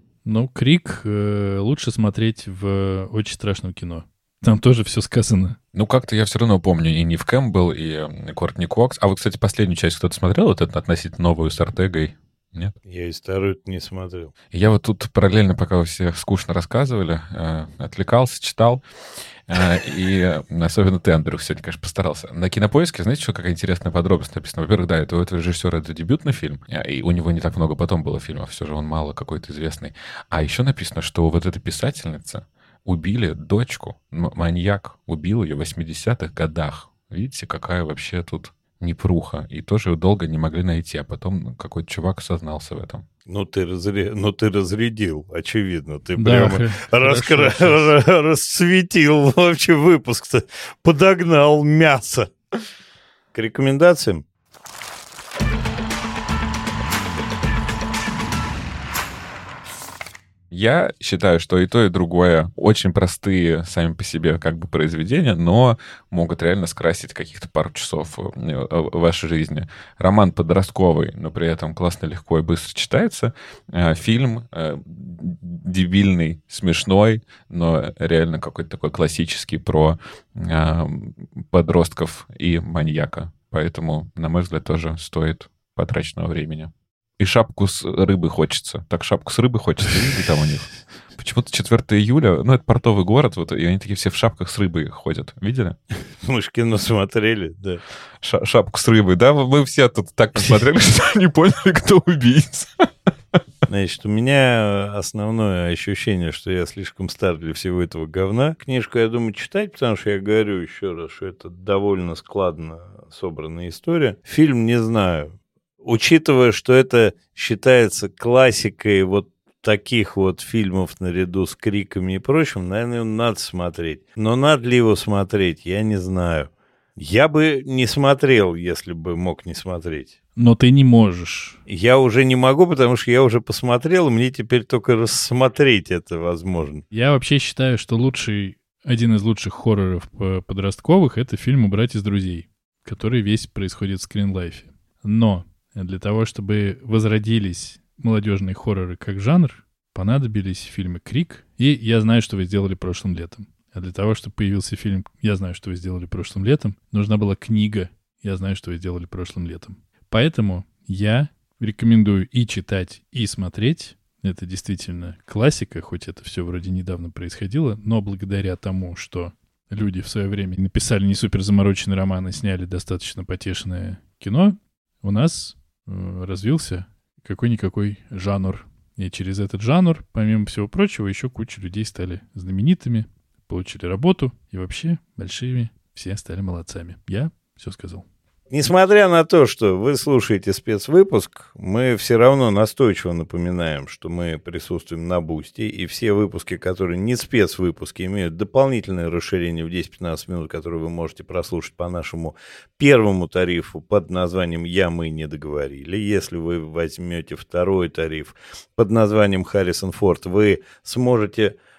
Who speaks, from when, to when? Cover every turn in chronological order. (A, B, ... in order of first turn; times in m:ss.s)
0:00.2-0:05.6 A
0:05.7-0:12.8 B
0:12.9-0:14.3 C
0:14.5-0:18.8 B
0:19.5-0:43.0 B
0:43.3-0:52.3 C
0:46.2-0:47.9 A
0:53.3-0:54.2 C
1:00.5-1:35.8 B
1:36.2-1:37.8 C
1:38.2-1:43.4 B
1:43.7-2:10.1 C
2:10.4-2:11.6 A
2:11.7-2:16.8 C
2:16.9-3:08.0 A
3:08.5-3:31.6 C